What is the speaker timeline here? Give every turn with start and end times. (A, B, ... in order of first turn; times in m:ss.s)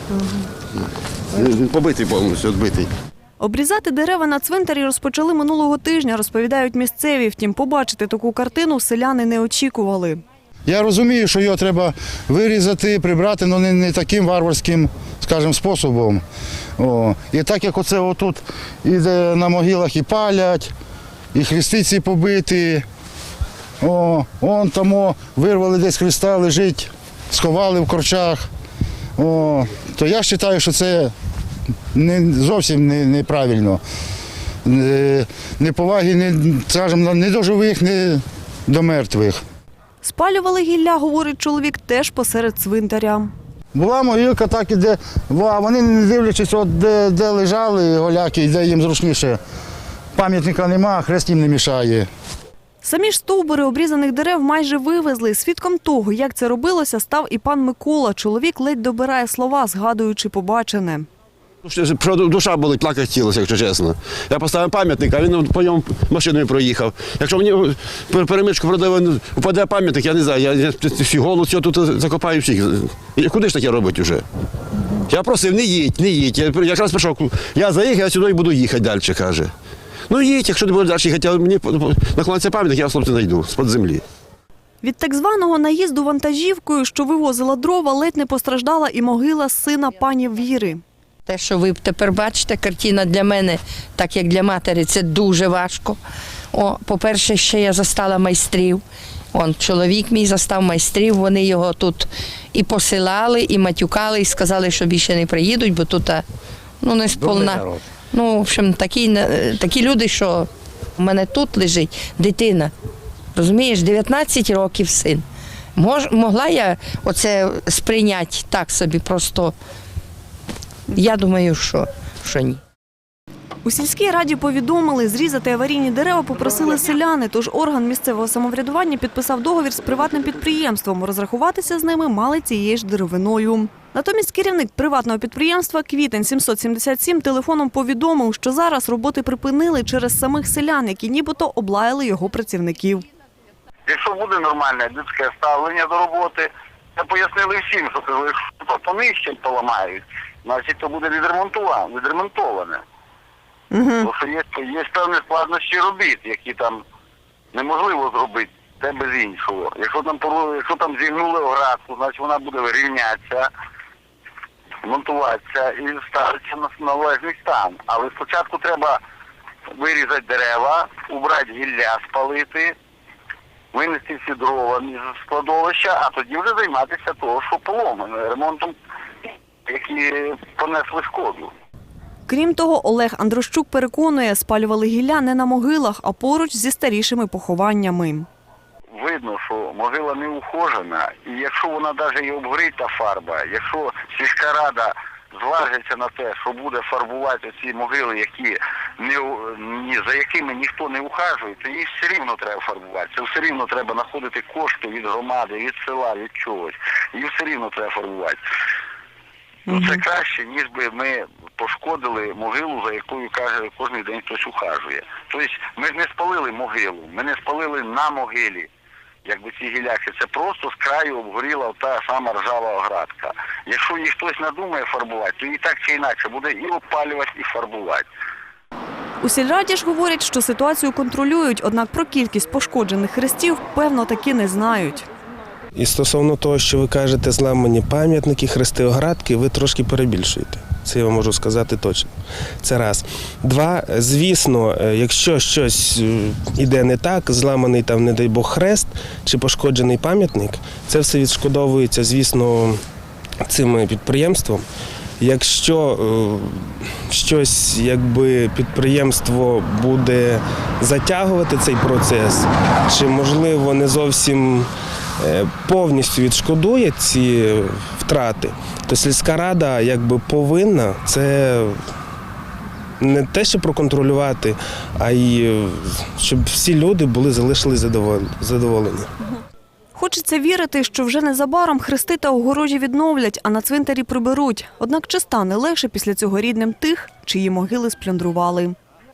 0:01.3-0:02.9 A
0:03.4-0:10.2 B
0:10.7-0:16.2 C
0:16.8-0:20.7 C
0:21.3-0:22.8 C
0:23.8-0:28.5 C
0:29.2-0:31.1 C
0:31.9-0:33.8 C
0:34.6-0:39.4 C
0:40.0-0:43.3 B
0:43.7-0:49.4 C
0:50.1-0:52.1 C
0:52.8-1:01.1 B
1:01.6-1:14.2 A
1:15.1-1:19.5 A
1:20.1-1:24.0 A
1:24.8-1:30.8 B
1:31.2-1:36.0 D
1:36.5-1:38.8 D
1:39.3-1:46.2 D
1:46.8-1:52.7 D
1:53.3-1:55.2 D
1:55.8-1:59.5 D
2:00.9-2:02.6 D
2:03.6-2:23.0 B
2:23.9-2:32.8 E
2:33.7-2:34.1 B
2:34.0-2:36.8 E
2:37.5-2:43.5 E
2:44.8-2:49.0 E
2:49.7-2:52.7 E
2:53.7-2:58.7 E
2:59.6-3:01.5 E
3:02.3-3:08.3 B
3:08.9-3:28.4 E
3:29.7-3:30.0 B
3:29.7-3:38.7 E
3:39.2-3:48.1 E
3:49.2-3:55.1 B
3:55.7-4:12.8 F
4:13.4-4:14.6 F
4:15.2-4:24.7 F
4:25.2-4:31.8 F
4:33.0-4:39.1 F
4:39.9-4:48.8 B